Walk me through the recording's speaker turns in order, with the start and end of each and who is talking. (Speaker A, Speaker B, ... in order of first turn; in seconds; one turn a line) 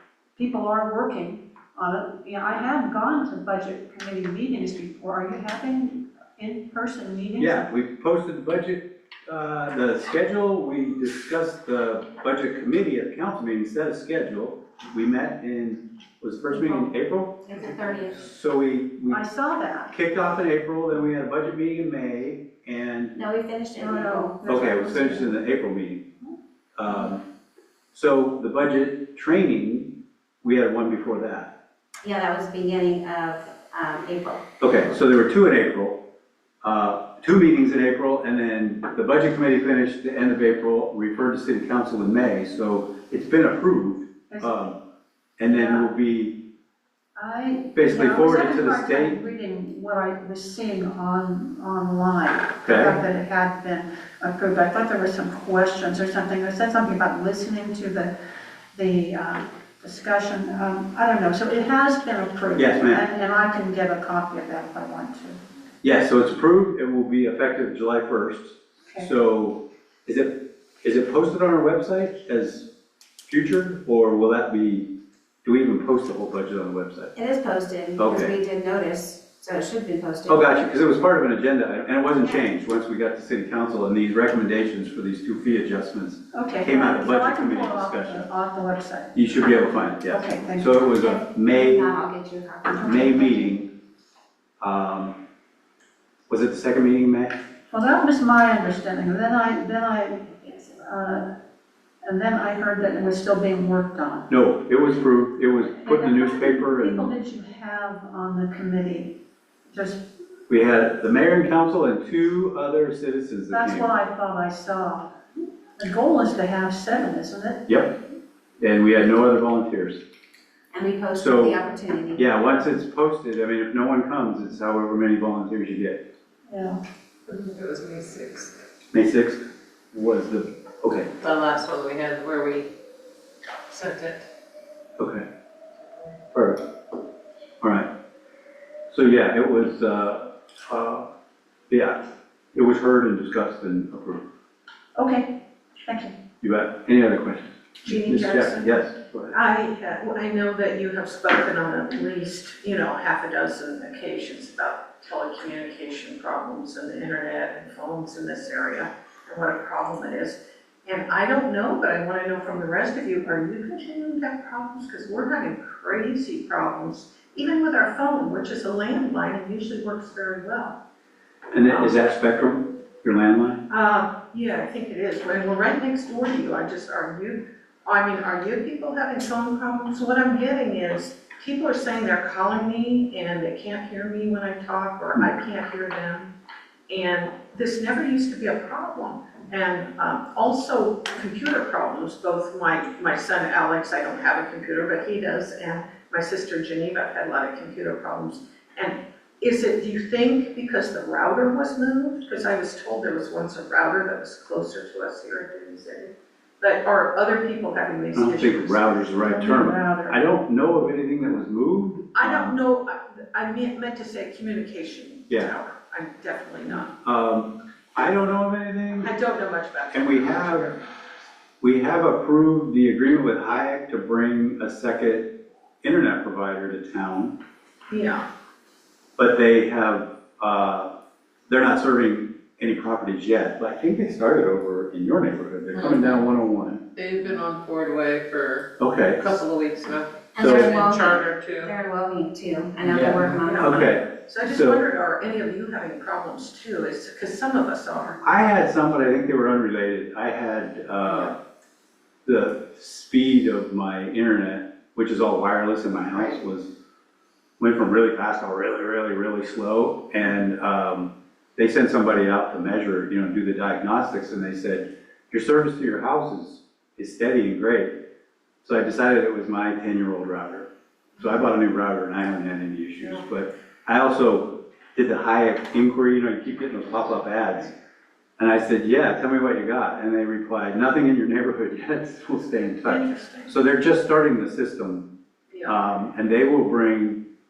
Speaker A: 0.4-7.7
Speaker B: 7.4-17.4
Speaker C: 16.6-16.9
Speaker C: 17.4-18.2
Speaker B: 18.1-19.2
Speaker A: 19.1-19.9
Speaker B: 19.9-23.1
Speaker C: 23.1-24.5
Speaker A: 23.8-25.4
Speaker B: 24.4-26.1
Speaker B: 26.8-27.2
Speaker B: 27.9-31.5
Speaker C: 32.0-34.5
Speaker B: 34.6-36.0
Speaker B: 36.6-44.8
Speaker A: 44.3-44.7
Speaker B: 45.4-46.4
Speaker A: 45.4-45.9
Speaker A: 47.2-58.1
Speaker B: 47.7-49.2
Speaker B: 52.6-53.0
Speaker A: 58.7-65.4
Speaker B: 62.5-63.0
Speaker B: 65.8-72.7
Speaker B: 73.3-74.9
Speaker B: 75.4-77.1
Speaker C: 77.1-80.5
Speaker B: 78.0-78.3
Speaker B: 80.3-88.3
Speaker A: 86.3-89.3
Speaker B: 89.1-91.9
Speaker A: 89.9-90.9
Speaker C: 90.9-93.5
Speaker B: 92.8-93.7
Speaker B: 94.6-95.1
Speaker B: 96.3-97.4
Speaker A: 97.7-101.3
Speaker A: 102.0-104.3
Speaker B: 104.3-107.1
Speaker A: 105.8-109.2
Speaker A: 109.7-110.0
Speaker B: 110.5-113.9
Speaker A: 113.5-115.1
Speaker A: 115.8-117.7
Speaker B: 117.7-117.9
Speaker B: 118.6-120.0
Speaker C: 120.7-122.4
Speaker B: 121.2-121.6
Speaker B: 122.2-126.0
Speaker A: 126.5-126.8
Speaker D: 127.3-128.5
Speaker B: 128.9-131.1
Speaker D: 131.2-132.7
Speaker D: 133.7-134.3
Speaker B: 135.0-135.2
Speaker B: 136.3-136.6
Speaker B: 137.6-137.9
Speaker B: 138.9-141.1
Speaker B: 141.7-142.0
Speaker B: 142.5-144.2
Speaker A: 144.9-146.1
Speaker B: 146.4-149.4
Speaker E: 147.8-170.8
Speaker B: 171.5-173.6
Speaker E: 171.7-172.0
Speaker E: 173.7-186.3
Speaker E: 186.9-209.7
Speaker B: 208.1-212.6
Speaker A: 209.3-210.2
Speaker E: 212.1-216.9
Speaker B: 217.0-219.1
Speaker E: 219.0-220.8
Speaker B: 219.9-220.7
Speaker B: 221.6-227.4
Speaker E: 227.9-228.2
Speaker B: 229.2-230.9
Speaker B: 231.5-236.8
Speaker D: 235.7-236.2
Speaker D: 236.9-241.7
Speaker B: 238.8-239.4
Speaker C: 240.3-243.9
Speaker B: 240.4-240.8
Speaker B: 242.9-244.8
Speaker E: 243.4-248.2
Speaker B: 248.2-251.4
Speaker E: 251.1-251.3
Speaker B: 252.2-256.7
Speaker B: 257.6-268.0
Speaker B: 268.6-270.7
Speaker B: 271.2-277.7
Speaker B: 278.4-285.1
Speaker E: 282.8-283.5
Speaker E: 285.5-285.8
Speaker B: 285.6-287.2